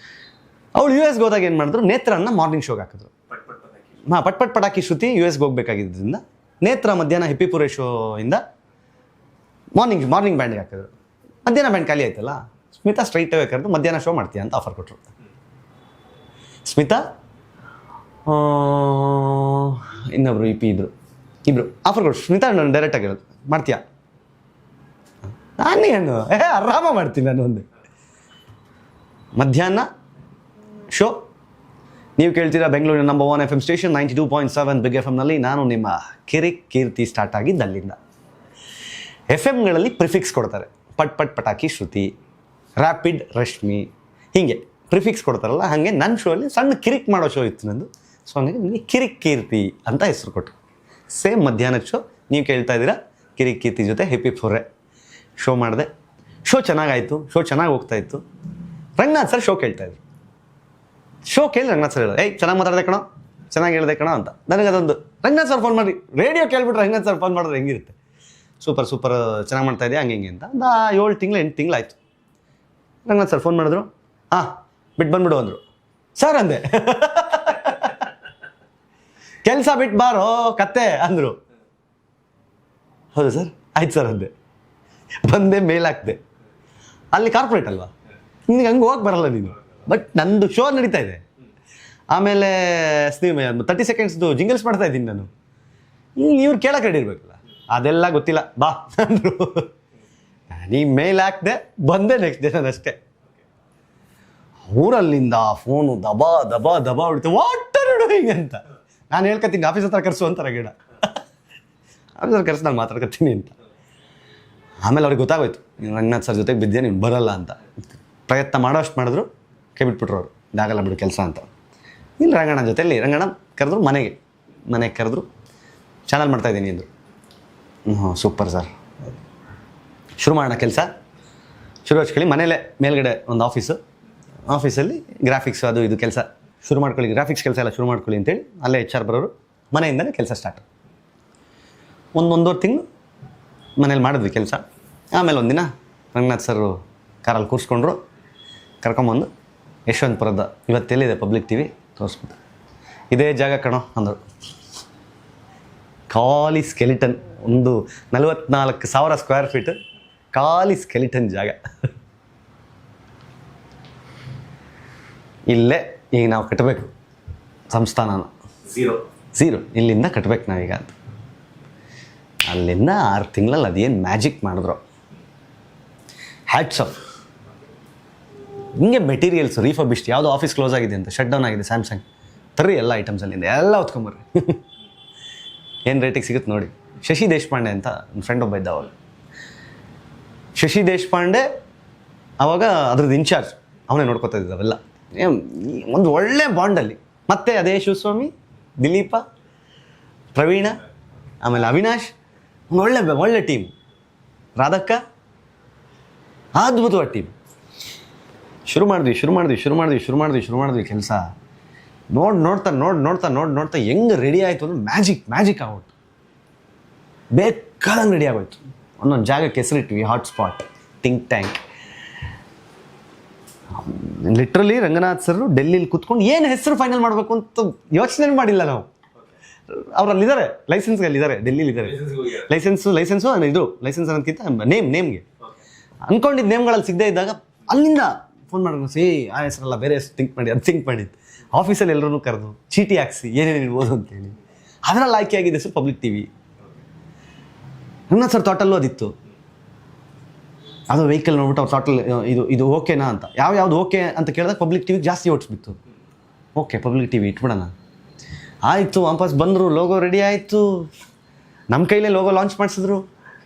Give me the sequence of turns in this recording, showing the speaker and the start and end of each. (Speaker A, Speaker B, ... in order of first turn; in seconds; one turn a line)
Speaker A: 0.7-3.1
Speaker A: 4.0-8.4
Speaker A: 9.7-10.9
Speaker A: 11.4-15.0
Speaker A: 16.6-17.0
Speaker A: 18.2-20.9
Speaker A: 21.4-23.8
Speaker A: 25.6-27.6
Speaker A: 29.4-29.9
Speaker A: 30.9-31.2
Speaker A: 32.2-38.0
Speaker A: 39.3-42.1
Speaker A: 42.8-50.5
Speaker A: 51.1-54.7
Speaker A: 55.4-55.9
Speaker A: 56.4-58.2
Speaker A: 59.0-60.0
Speaker A: 61.2-68.0
Speaker A: 68.6-72.0
Speaker A: 73.0-75.6
Speaker A: 76.2-78.1
Speaker A: 79.4-81.4
Speaker A: 83.1-84.3
Speaker A: 85.2-86.2
Speaker A: 87.1-87.9
Speaker A: 88.5-91.2
Speaker A: 92.1-95.3
Speaker A: 96.2-99.7
Speaker A: 100.5-103.0
Speaker A: 104.7-110.7
Speaker A: 112.2-113.5
Speaker A: 114.8-117.6
Speaker A: 118.3-121.5
Speaker A: 122.2-125.3
Speaker A: 126.1-126.9
Speaker A: 127.8-128.7
Speaker A: 130.2-130.9
Speaker A: 131.8-133.8
Speaker A: 134.5-140.7
Speaker A: 142.1-142.8
Speaker A: 143.8-148.0
Speaker A: 148.8-149.3
Speaker A: 149.9-152.4
Speaker A: 153.1-154.2
Speaker A: 156.1-159.8
Speaker A: 160.3-161.6
Speaker A: 165.5-166.9
Speaker A: 167.7-170.9
Speaker A: 172.4-174.8
Speaker A: 176.5-177.0
Speaker A: 178.7-182.0
Speaker A: 182.6-184.6
Speaker A: 185.8-188.9
Speaker A: 190.5-191.4
Speaker A: 192.4-199.2
Speaker A: 200.3-200.8
Speaker A: 201.4-202.1
Speaker A: 202.7-203.7
Speaker A: 204.6-205.0
Speaker A: 206.5-207.3
Speaker A: 208.7-211.3
Speaker A: 212.1-215.9
Speaker A: 217.3-221.6
Speaker A: 223.7-228.9
Speaker A: 229.7-235.2
Speaker A: 236.1-246.3
Speaker A: 248.1-249.1
Speaker A: 250.9-255.8
Speaker A: 256.6-257.7
Speaker A: 258.6-260.9
Speaker A: 261.7-263.0